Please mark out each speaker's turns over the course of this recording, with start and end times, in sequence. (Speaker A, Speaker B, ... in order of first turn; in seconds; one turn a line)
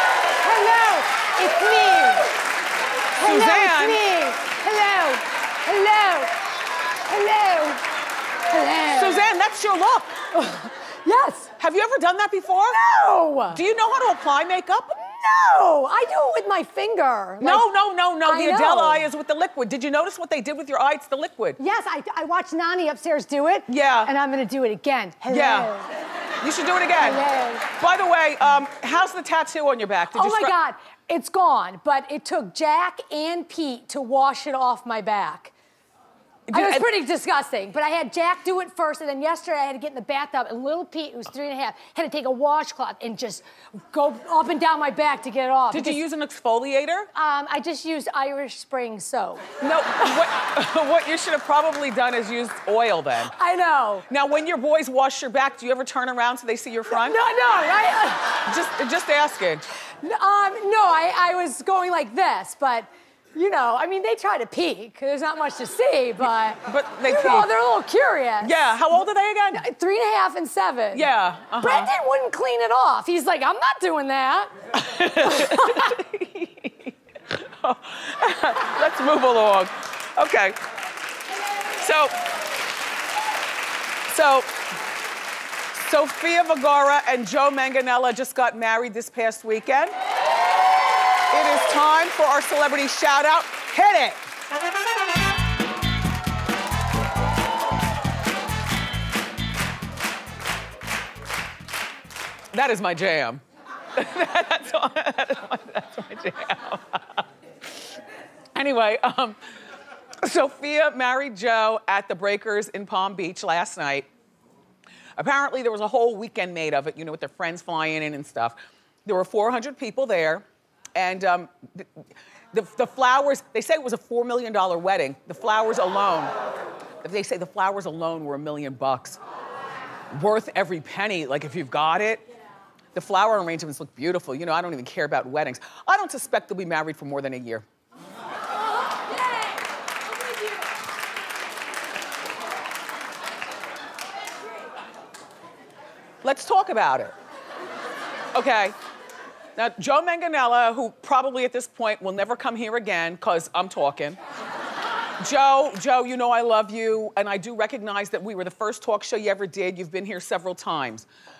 Speaker A: 0.4-2.3
Speaker A: 3.1-6.4
Speaker B: 3.2-4.0
Speaker A: 7.0-7.9
Speaker A: 8.5-9.3
Speaker B: 8.9-10.2
Speaker A: 10.3-11.5
Speaker B: 11.6-12.8
Speaker A: 12.7-13.6
Speaker B: 13.5-15.0
Speaker A: 15.0-17.6
Speaker B: 17.4-21.6
Speaker A: 18.2-19.1
Speaker A: 21.6-25.9
Speaker B: 23.7-24.1
Speaker B: 25.2-25.7
Speaker B: 26.4-27.2
Speaker A: 27.0-27.7
Speaker B: 27.8-30.5
Speaker A: 30.1-35.5
Speaker B: 36.5-36.9
Speaker A: 36.5-46.0
Speaker B: 45.7-47.1
Speaker A: 47.1-49.5
Speaker B: 49.6-53.3
Speaker A: 53.3-54.0
Speaker B: 54.1-57.2
Speaker A: 56.9-58.4
Speaker B: 58.4-59.6
Speaker A: 60.0-68.8
Speaker B: 66.6-67.5
Speaker B: 68.4-69.6
Speaker A: 69.5-74.5
Speaker B: 70.9-71.9
Speaker B: 74.7-80.6
Speaker A: 75.2-76.0
Speaker B: 81.8-82.2
Speaker B: 84.1-84.5
Speaker B: 85.7-89.9
Speaker B: 91.3-94.2
Speaker B: 102.5-103.4
Speaker B: 103.9-107.2
Speaker B: 108.5-109.4
Speaker B: 110.2-114.1
Speaker B: 115.2-126.3
Speaker B: 127.0-129.2
Speaker B: 130.1-132.2
Speaker B: 132.9-137.6
Speaker B: 146.2-147.1
Speaker B: 148.3-148.8
Speaker B: 149.6-154.2
Speaker B: 155.2-161.1